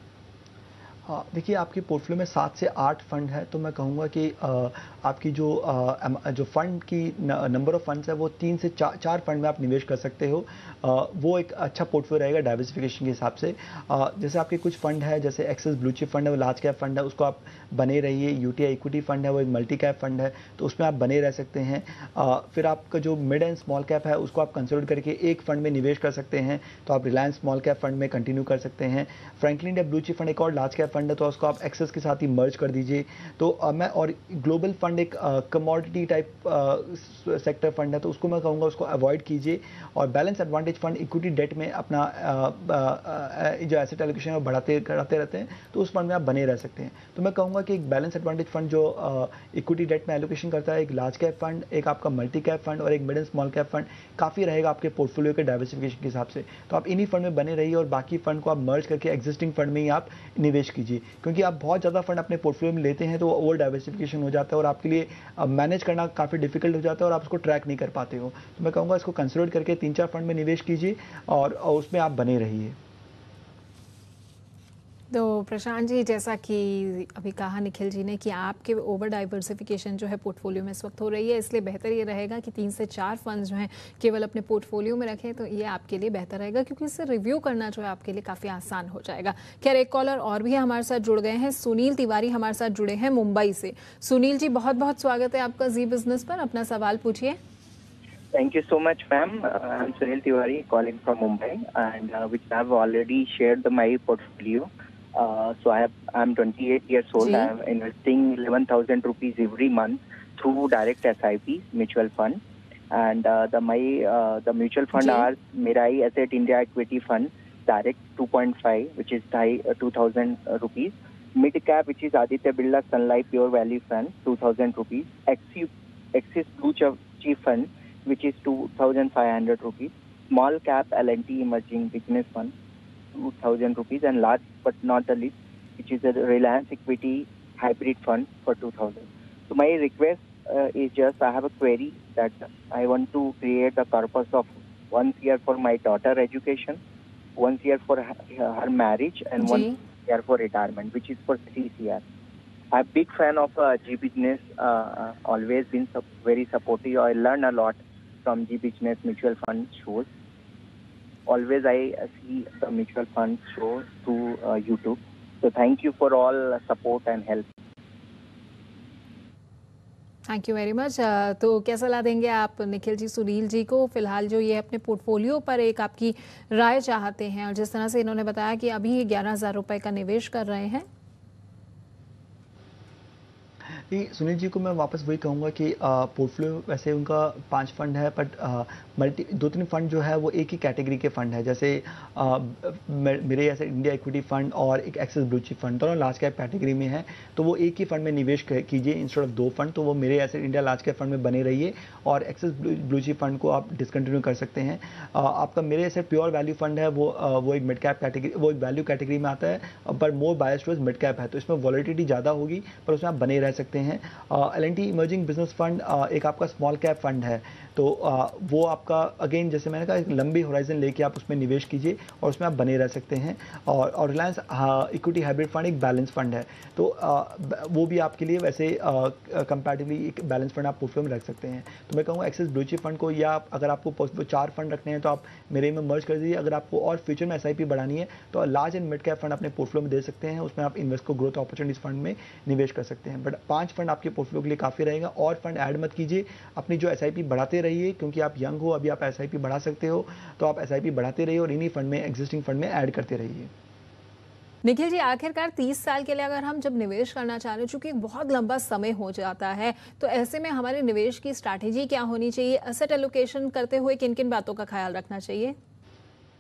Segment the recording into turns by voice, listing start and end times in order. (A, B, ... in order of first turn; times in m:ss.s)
0:01.0-1:12.8 A
1:15.1-1:37.4 B
1:38.3-1:52.4 C
1:47.2-1:47.5 B
1:52.9-2:12.5 C
1:55.0-1:55.3 B
2:13.1-2:26.8 C
2:27.4-2:32.0 C
2:29.4-2:29.7 B
2:32.7-2:40.1 C
2:41.3-2:47.5 C
2:50.3-3:00.8 B
3:03.7-4:13.5 A
4:14.6-4:25.5 B